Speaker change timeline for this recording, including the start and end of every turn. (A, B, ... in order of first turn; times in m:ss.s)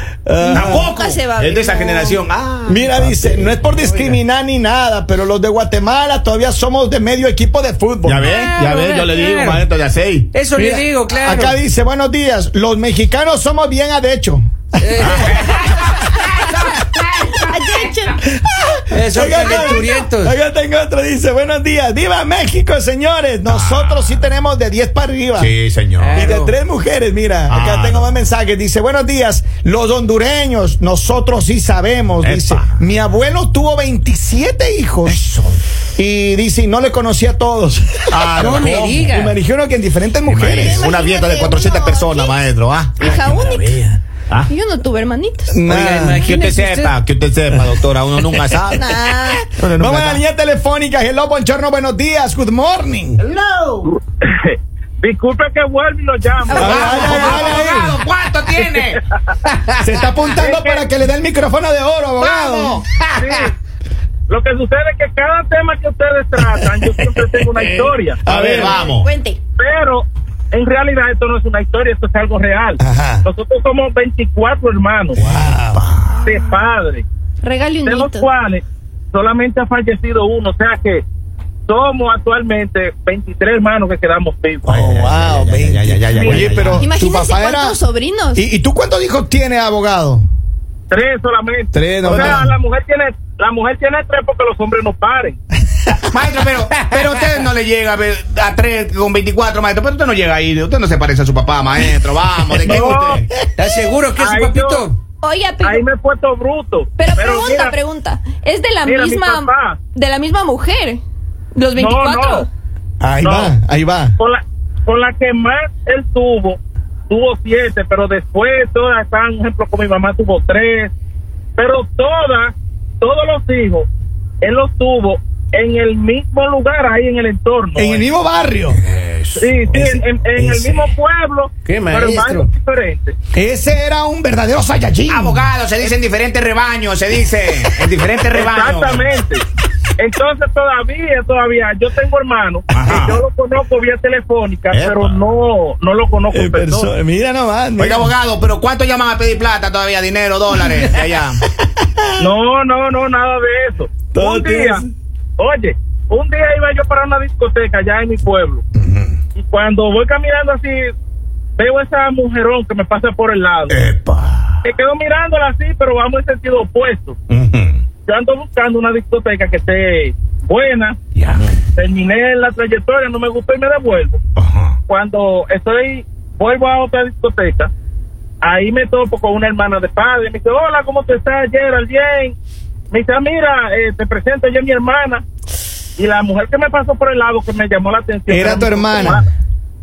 0:00.2-0:00.9 A
0:00.4-0:03.6 B
0:00.5-0:02.2 C
0:02.6-0:08.3 A
0:03.7-0:04.2 D
0:08.0-0:10.3 B
0:08.3-0:09.6 D
0:10.3-0:11.6 D
0:10.5-0:15.3 A
0:14.8-0:15.8 D
0:15.0-0:18.2 B
0:17.4-0:18.2 C
0:18.2-0:25.5 A
0:18.9-0:20.3 D
0:23.5-0:24.2 B
0:25.4-0:26.2 B
0:26.0-0:26.6 D
0:26.1-0:35.2 A
0:27.5-0:28.1 B
0:32.2-0:32.8 B
0:35.1-0:35.6 B
0:36.0-0:38.4 A
0:38.1-0:39.1 B
0:38.4-0:39.4 D
0:39.1-0:40.9 A
0:40.2-0:44.5 B
0:40.5-0:43.8 C
0:44.4-0:45.5 C
0:45.5-0:46.2 A
0:45.7-0:47.0 D
0:46.2-0:50.2 B
0:48.6-0:49.4 C
0:49.6-0:53.2 A
0:53.2-0:53.9 B
0:53.8-0:57.6 E
0:56.5-0:57.4 C
0:56.5-0:59.0 B
0:56.5-0:58.0 A
0:59.8-1:02.8 A
1:00.4-1:00.8 E
1:02.2-1:03.5 B
1:03.1-1:03.5 E
1:04.3-1:08.2 E
1:07.5-1:09.1 B
1:08.2-1:08.9 A
1:08.6-1:09.4 C
1:09.6-1:15.2 E
1:12.8-1:13.2 A
1:15.2-1:15.8 A
1:15.2-1:16.3 B
1:16.2-1:17.0 E
1:17.4-1:18.3 C
1:17.8-1:21.0 E
1:21.7-1:24.7 E
1:24.6-1:26.8 B
1:24.6-1:27.8 A
1:26.1-1:28.4 C
1:28.3-1:30.2 A
1:30.9-1:35.4 E
1:31.7-1:32.5 A
1:32.0-1:32.5 B
1:36.0-1:43.3 B
1:42.6-1:43.2 E
1:43.6-1:45.0 D
1:44.2-1:44.9 E
1:45.2-1:45.8 C
1:45.6-1:47.7 E
1:47.0-1:51.0 C
1:48.8-1:49.8 E
1:51.5-1:52.5 C
1:51.8-1:52.5 E
1:53.0-1:54.1 A
1:53.2-1:53.5 E
1:54.2-2:00.9 E
2:01.6-2:03.9 E
2:04.4-2:08.0 E
2:07.8-2:08.8 A
2:08.8-2:09.8 B
2:09.4-2:13.2 E
2:09.7-2:10.9 A
2:11.6-2:12.5 D
2:13.3-2:15.5 A
2:15.1-2:19.1 B
2:18.3-2:19.4 E
2:20.0-2:26.9 E
2:22.7-2:23.2 B
2:24.7-2:25.2 B
2:26.3-2:28.1 A
2:27.8-2:31.4 B
2:32.2-2:34.8 E
2:34.1-2:34.9 A
2:35.4-2:38.6 E
2:38.8-2:39.1 B
2:39.4-2:40.9 E
2:41.6-2:43.8 E
2:43.7-2:44.6 B
2:44.6-2:47.2 E
2:47.3-2:47.8 B
2:48.1-2:51.0 E
2:51.2-2:51.5 B
2:51.8-2:54.2 E
2:54.4-2:54.8 B
2:54.9-2:57.7 E
2:58.4-3:02.4 E
3:02.9-3:05.2 E
3:06.0-3:09.3 E
3:08.3-3:09.2 A